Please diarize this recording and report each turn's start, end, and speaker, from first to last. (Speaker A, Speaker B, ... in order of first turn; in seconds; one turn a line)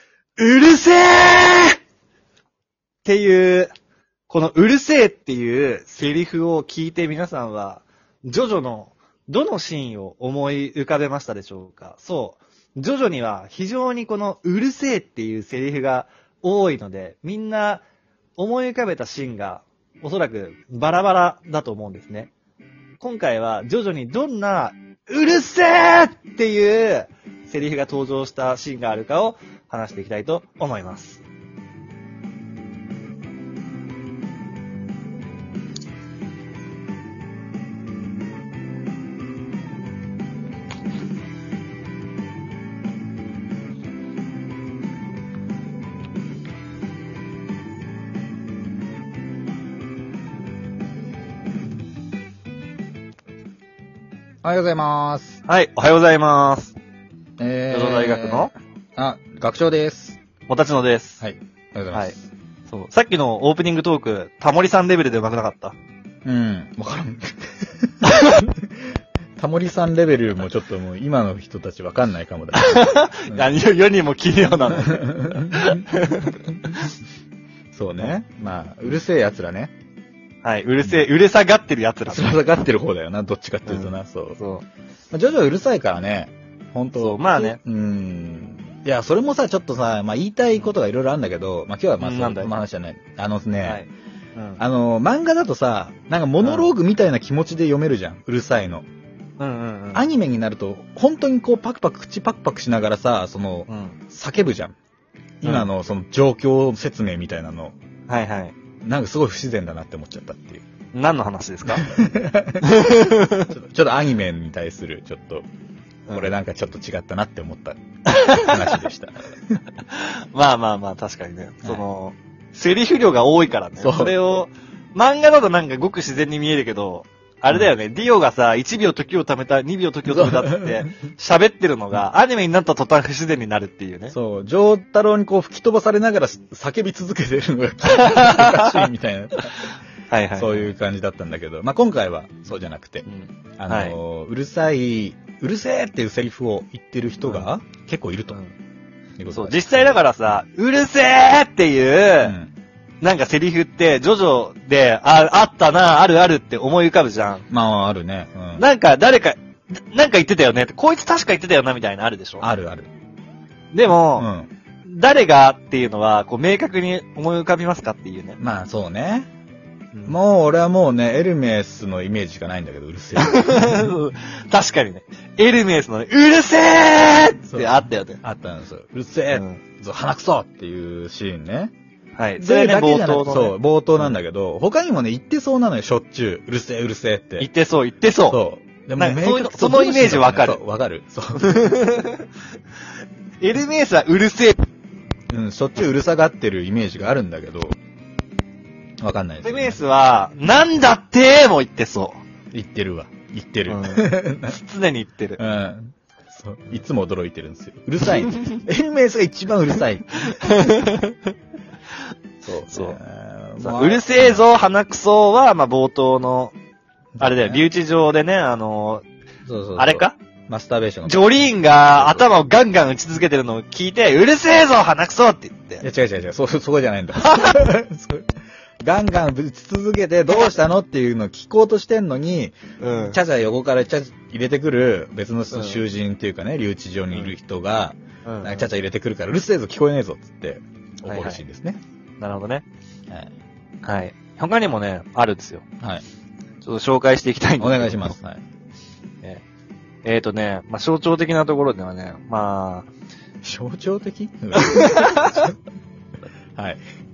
Speaker A: 0.4-1.8
Speaker A: 3.0-3.7
Speaker A: 4.3-17.8
Speaker A: 18.4-22.3
Speaker A: 23.0-31.2
Speaker B: 54.4-55.4
Speaker A: 55.5-56.8
Speaker B: 57.4-60.2
Speaker A: 57.7-58.5
Speaker A: 60.5-61.2
Speaker B: 61.2-62.1
Speaker A: 62.7-65.7
Speaker B: 66.2-73.5
Speaker A: 68.0-68.4
Speaker A: 72.6-76.9
Speaker B: 74.7-75.7
Speaker B: 77.7-79.7
Speaker A: 80.4-82.4
Speaker B: 82.1-84.4
Speaker A: 83.7-84.6
Speaker B: 85.1-93.8
Speaker A: 87.0-87.6
Speaker A: 92.0-92.5
Speaker A: 93.6-94.6
Speaker B: 94.6-98.8
Speaker A: 96.4-96.7
Speaker A: 99.4-100.0
Speaker B: 99.9-104.8
Speaker A: 103.7-104.0
Speaker B: 105.4-107.8
Speaker A: 105.4-105.7
Speaker A: 108.1-108.5
Speaker B: 108.8-110.6
Speaker A: 110.9-111.9
Speaker B: 111.8-115.5
Speaker A: 112.6-113.5
Speaker A: 116.1-116.3
Speaker B: 116.1-119.6
Speaker A: 118.1-118.8
Speaker A: 119.8-134.1
Speaker B: 123.8-124.2
Speaker B: 130.1-130.8
Speaker B: 134.1-139.7
Speaker A: 137.8-140.7
Speaker B: 140.3-143.1
Speaker A: 143.1-144.0
Speaker B: 143.6-148.4
Speaker A: 147.2-147.5
Speaker B: 149.2-150.0
Speaker A: 149.3-152.3
Speaker B: 152.2-152.5
Speaker A: 153.0-157.4
Speaker B: 157.5-158.6
Speaker A: 158.6-162.4
Speaker B: 162.4-162.9
Speaker A: 163.7-164.3
Speaker B: 164.1-164.5
Speaker A: 164.8-168.4
Speaker B: 168.4-169.3
Speaker B: 170.1-173.9
Speaker A: 173.2-178.2
Speaker B: 177.5-181.7
Speaker A: 179.3-179.6
Speaker A: 182.2-184.2
Speaker B: 182.4-187.5
Speaker A: 187.4-188.4
Speaker B: 188.3-191.7
Speaker A: 189.0-190.6
Speaker A: 191.4-192.3
Speaker A: 193.4-194.7
Speaker B: 195.3-197.7
Speaker B: 199.0-199.8
Speaker A: 199.4-202.2
Speaker B: 202.5-204.6
Speaker A: 203.7-205.4
Speaker B: 205.4-210.3
Speaker A: 208.3-208.6
Speaker A: 210.1-211.3
Speaker B: 212.4-214.5
Speaker A: 212.7-213.0
Speaker A: 213.6-216.5
Speaker B: 217.2-217.6
Speaker A: 217.2-219.0
Speaker B: 219.4-222.3
Speaker A: 219.8-220.1
Speaker A: 221.0-225.8
Speaker B: 225.8-241.8
Speaker A: 227.2-227.6
Speaker A: 232.8-233.2
Speaker A: 235.5-235.8
Speaker A: 238.2-238.7
Speaker A: 241.1-241.4
Speaker A: 242.2-242.6
Speaker A: 243.8-245.6
Speaker A: 246.6-248.1
Speaker B: 247.6-248.4
Speaker A: 250.0-252.9
Speaker B: 253.4-255.5
Speaker A: 254.6-255.5
Speaker B: 256.6-256.8